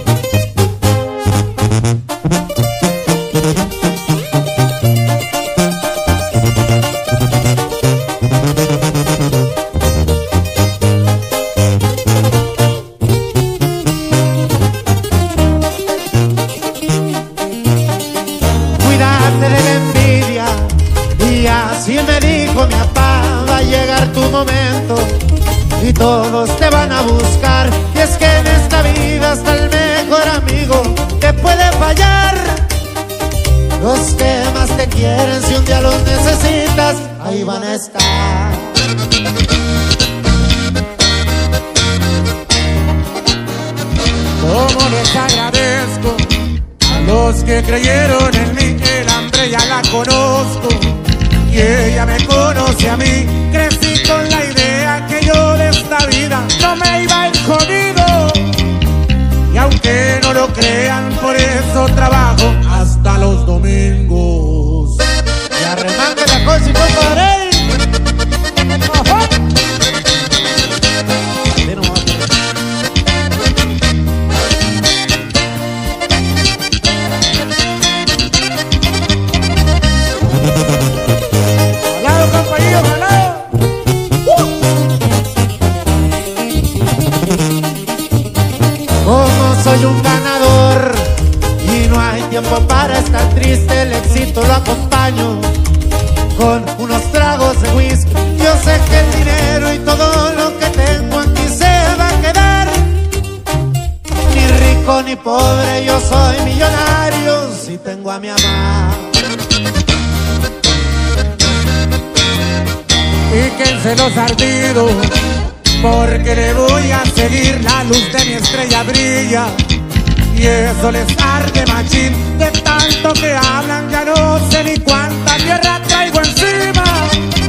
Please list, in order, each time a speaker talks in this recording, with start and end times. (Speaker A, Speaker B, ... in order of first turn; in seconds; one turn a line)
Speaker A: 18.8-25.2
Speaker A: 25.8-32.7
Speaker A: 33.8-38.8
Speaker B: 44.4-58.7
Speaker B: 59.5-65.0
Speaker A: 65.5-67.8
Speaker A: 71.6-72.3
Speaker B: 81.9-83.5
Speaker A: 89.0-95.6
Speaker A: 96.3-103.0
Speaker A: 104.2-109.2
Speaker B: 113.3-115.2
Speaker B: 115.8-119.6
Speaker B: 120.3-127.2